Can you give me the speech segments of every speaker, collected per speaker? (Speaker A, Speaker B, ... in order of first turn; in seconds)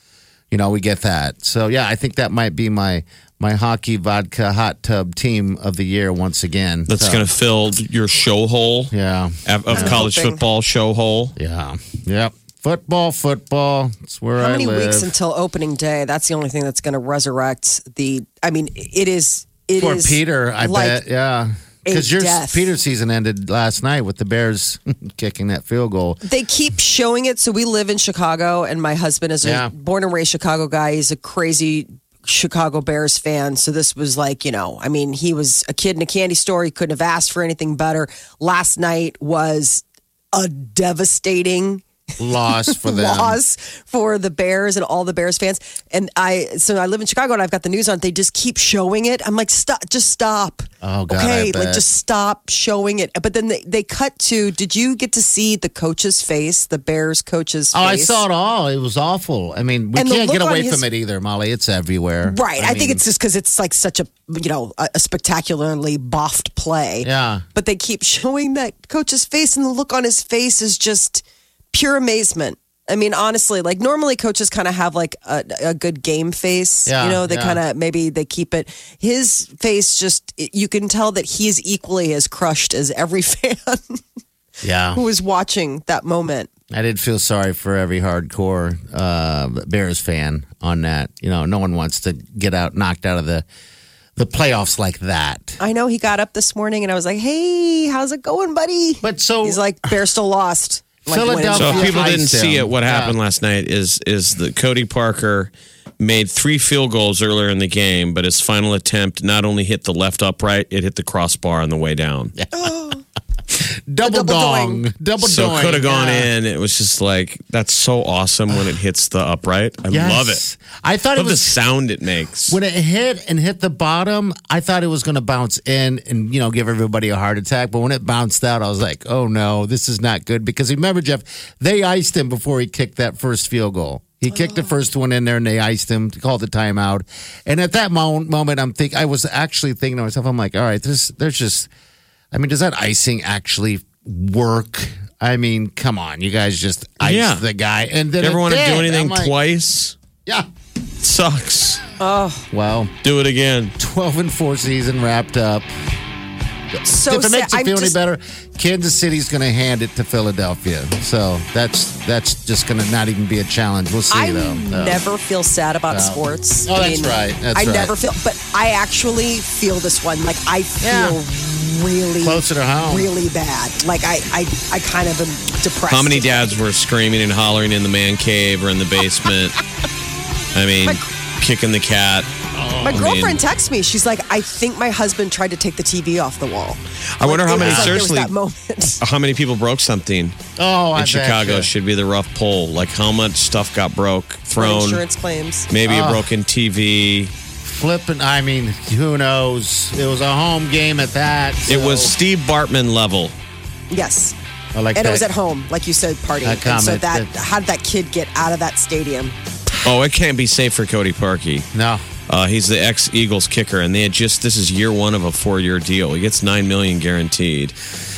Speaker A: 0.5-7.3, 8.9-10.1, 11.4-15.1, 19.8-26.2, 29.4-29.7, 42.2-43.4, 50.8-51.8, 57.7-63.0, 67.0-67.4, 76.9-77.6, 84.6-85.0, 86.7-93.4, 94.2-95.6, 99.0-99.9, 101.1-103.2, 112.4-112.7, 113.5-116.3, 119.9-121.6, 122.5-141.7, 142.3-149.3, 152.5-152.9, 153.8-155.7, 156.9-165.0, 165.9-167.9, 170.8-171.2, 172.2-173.1, 182.5-183.1, 187.5-188.0, 190.6-191.7, 195.8-196.3, 197.6-202.1, 204.7-205.3, 206.4-207.3, 211.7-212.0
Speaker B: 6.9-11.3, 101.5-112.3, 115.2-120.4, 121.1-122.6, 147.0-147.4, 148.2-150.0, 151.0-151.8, 153.0-153.7, 175.9-179.6, 180.5-182.3, 182.9-183.4, 187.2-188.3, 189.0-190.3, 190.9-195.0, 195.7-197.3, 201.7-203.3, 209.8-211.7, 212.3-217.8
Speaker C: 9.7-10.4, 14.4-21.0, 21.9-22.7, 26.2-41.8, 42.4-58.2, 59.9-60.8, 62.2-84.0, 84.9-86.5, 95.6-102.1, 112.5-113.0, 114.0-114.8, 152.0-152.4, 156.8-158.0, 164.1-176.6, 182.8-189.0, 194.6-195.7, 203.9-204.3, 204.9-209.3